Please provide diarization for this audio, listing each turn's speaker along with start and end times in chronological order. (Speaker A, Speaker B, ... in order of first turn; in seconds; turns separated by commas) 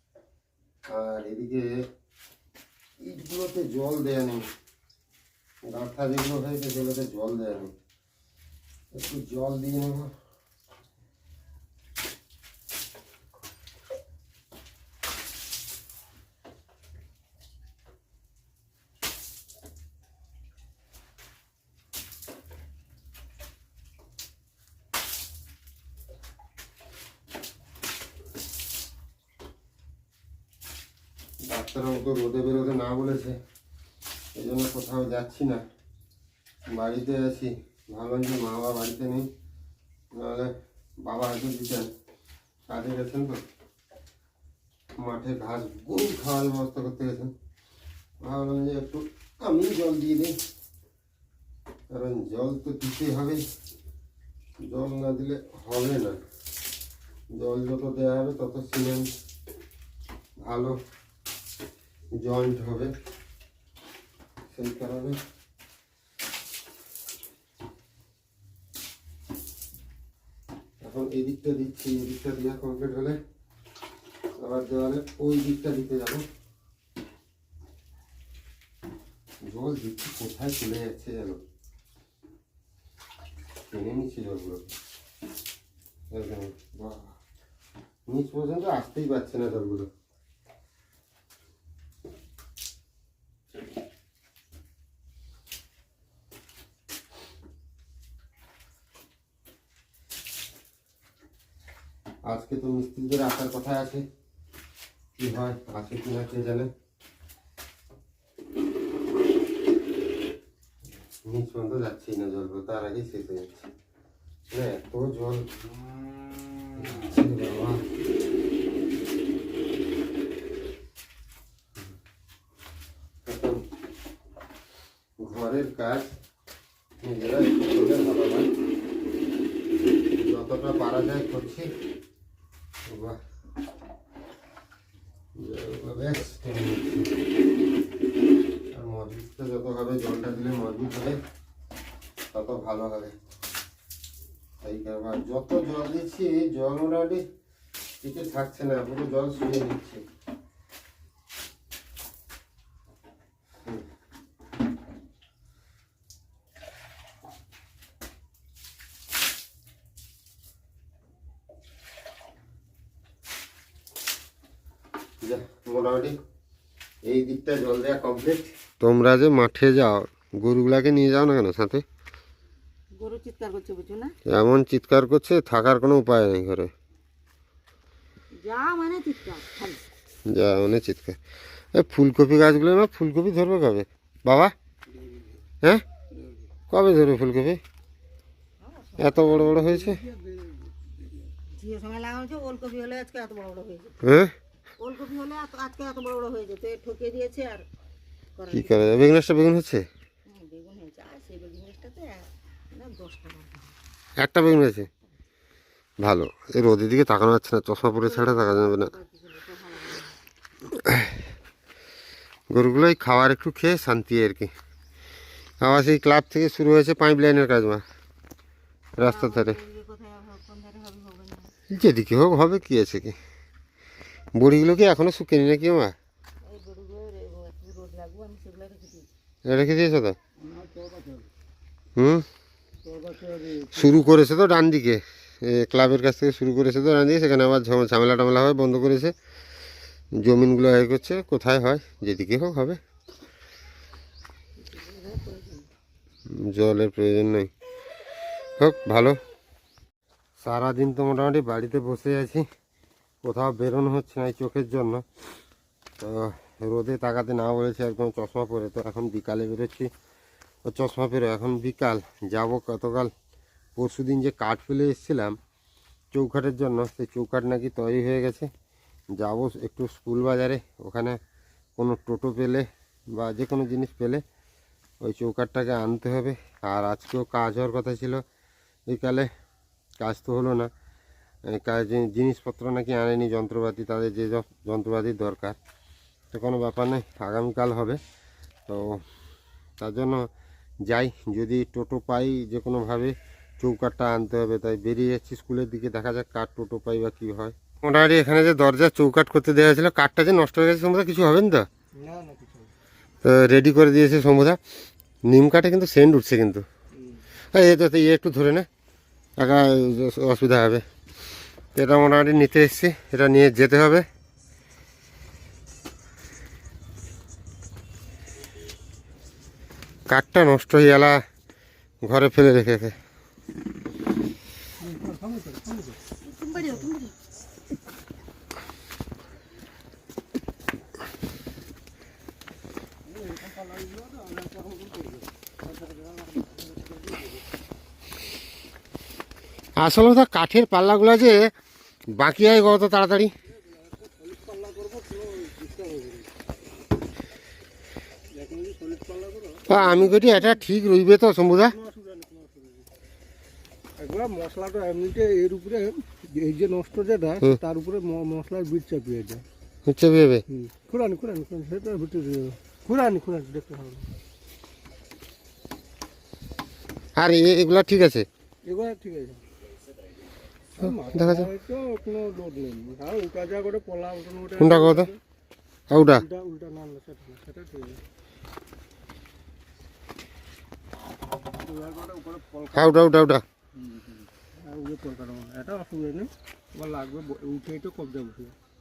Speaker A: 0.8-1.9, Speaker A: 3.0-4.5, Speaker A: 5.7-7.7, Speaker A: 8.9-10.1, Speaker A: 31.4-33.4, Speaker A: 34.3-35.6, Speaker A: 36.7-39.3, Speaker A: 40.1-41.9, Speaker A: 42.7-43.4, Speaker A: 45.0-47.3, Speaker A: 48.2-50.4, Speaker A: 51.9-53.4, Speaker A: 54.6-56.2, Speaker A: 57.3-59.1, Speaker A: 60.4-60.8, Speaker A: 62.1-62.9, Speaker A: 64.5-65.2, Speaker A: 70.8-73.2, Speaker A: 74.4-76.2, Speaker A: 79.4-81.4, Speaker A: 83.7-84.7, Speaker A: 86.1-87.2, Speaker A: 88.1-89.9, Speaker A: 102.2-104.0, Speaker A: 105.2-106.7, Speaker A: 111.2-113.7, Speaker A: 114.5-115.5, Speaker A: 116.7-117.8, Speaker A: 123.2-123.6, Speaker A: 125.2-126.2, Speaker A: 127.0-128.5, Speaker A: 130.2-131.7, Speaker A: 132.9-133.2, Speaker A: 135.3-137.1, Speaker A: 138.7-141.2, Speaker A: 142.3-143.2, Speaker A: 144.6-147.2, Speaker A: 148.0-150.0, Speaker A: 165.2-166.2, Speaker A: 167.1-171.8, Speaker B: 172.9-174.2, Speaker A: 174.3-176.7, Speaker B: 178.4-179.8, Speaker A: 180.2-181.2, Speaker A: 181.7-184.5, Speaker A: 186.7-187.6, Speaker B: 188.6-189.5, Speaker A: 189.0-190.0, Speaker C: 190.1-190.5, Speaker B: 191.5-194.0, Speaker A: 194.0-194.3, Speaker B: 194.8-197.7, Speaker B: 198.3-199.0, Speaker A: 198.5-199.8, Speaker B: 200.3-203.7, Speaker A: 204.2-204.9, Speaker A: 206.0-208.9, Speaker B: 208.0-210.2, Speaker A: 212.5-214.5, Speaker A: 215.6-217.8, Speaker A: 218.9-219.6, Speaker B: 219.0-221.5, Speaker A: 221.7-223.2, Speaker A: 224.3-225.9, Speaker B: 226.4-229.1, Speaker A: 229.4-230.2, Speaker C: 230.6-231.2, Speaker A: 231.9-232.2, Speaker C: 232.8-233.7, Speaker A: 233.7-239.1, Speaker A: 240.2-242.8, Speaker B: 244.6-245.7, Speaker A: 246.3-247.5, Speaker A: 248.6-249.2, Speaker A: 250.4-252.5, Speaker A: 253.2-255.0, Speaker A: 256.0-259.9, Speaker A: 260.6-263.1, Speaker A: 263.8-265.4, Speaker A: 266.1-268.5, Speaker A: 269.1-271.2, Speaker A: 271.8-274.2, Speaker A: 275.0-278.2, Speaker A: 278.9-279.3, Speaker A: 280.0-280.7, Speaker A: 281.4-285.6, Speaker A: 286.3-288.0, Speaker A: 288.7-289.0, Speaker A: 289.8-290.3, Speaker A: 290.8-301.7, Speaker C: 301.9-302.7, Speaker A: 303.2-304.6, Speaker A: 305.2-306.6, Speaker A: 307.5-308.7, Speaker A: 309.4-310.8, Speaker A: 311.7-314.1, Speaker A: 320.1-321.2, Speaker A: 322.0-322.9, Speaker C: 324.8-326.0, Speaker B: 326.2-327.1, Speaker C: 333.1-337.4, Speaker A: 339.8-341.5, Speaker A: 342.1-343.3, Speaker C: 343.7-346.3, Speaker C: 348.3-349.6, Speaker A: 349.7-351.8, Speaker C: 351.8-352.8, Speaker C: 354.0-359.4, Speaker A: 359.9-360.4, Speaker C: 360.5-364.1, Speaker A: 367.1-368.2, Speaker C: 368.6-369.4, Speaker A: 370.8-371.5, Speaker C: 370.9-374.6, Speaker A: 374.6-375.1, Speaker A: 375.9-376.3, Speaker C: 376.3-378.0, Speaker C: 381.6-382.8, Speaker A: 382.7-383.4, Speaker C: 384.6-388.6